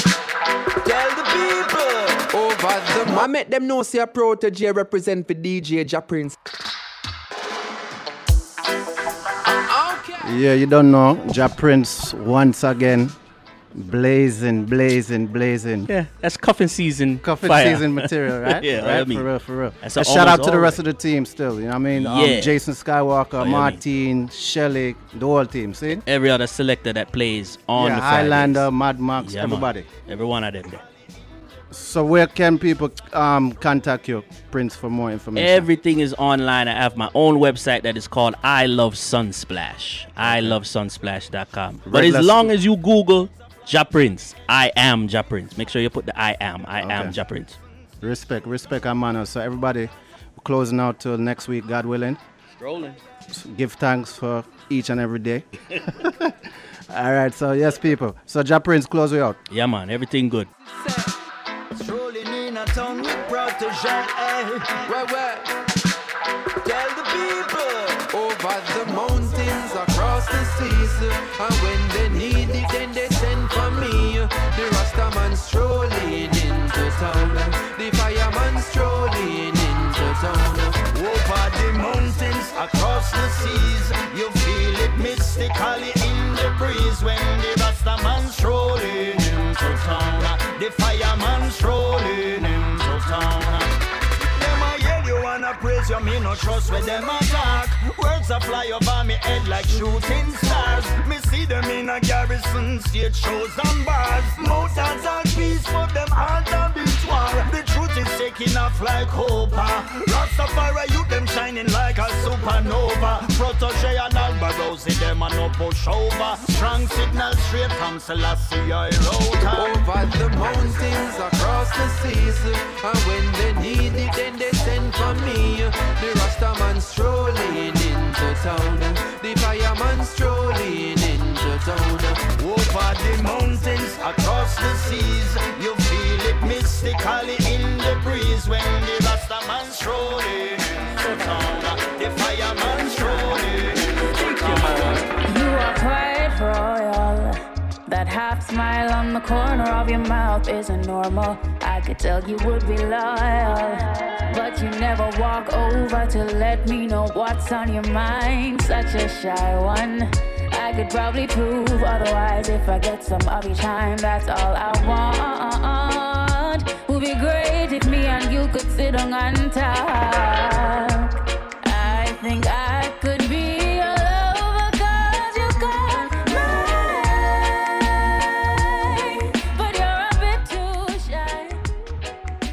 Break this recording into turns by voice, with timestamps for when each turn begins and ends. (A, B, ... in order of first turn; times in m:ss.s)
0:00.8-0:02.3 A
0:02.3-0:06.4 B
0:09.7-0:10.3 B
0:10.2-0:13.1 C
0:13.7-0:15.9 C
0:15.9-0:19.3 D
0:17.2-0:26.0 C
0:19.8-0:20.8 D
0:21.9-0:22.6 D
0:23.4-0:23.8 D
0:26.0-0:28.7 D
0:27.8-0:29.9 C
0:29.2-0:30.8 D
0:31.7-0:35.7 C
0:35.3-0:47.6 D
0:40.2-0:40.6 C
0:41.8-0:42.5 C
0:46.8-0:47.2 C
0:48.0-0:52.2 C
0:52.6-0:53.0 D
0:53.3-0:59.4 C
0:59.5-1:00.5 D
1:01.7-1:04.8 A
1:04.8-1:05.5 B
1:06.6-1:08.1 A
1:08.1-1:20.8 B
1:20.9-1:59.9 A
1:59.5-2:12.2 B
2:12.4-2:25.1 A
2:25.2-3:01.6 E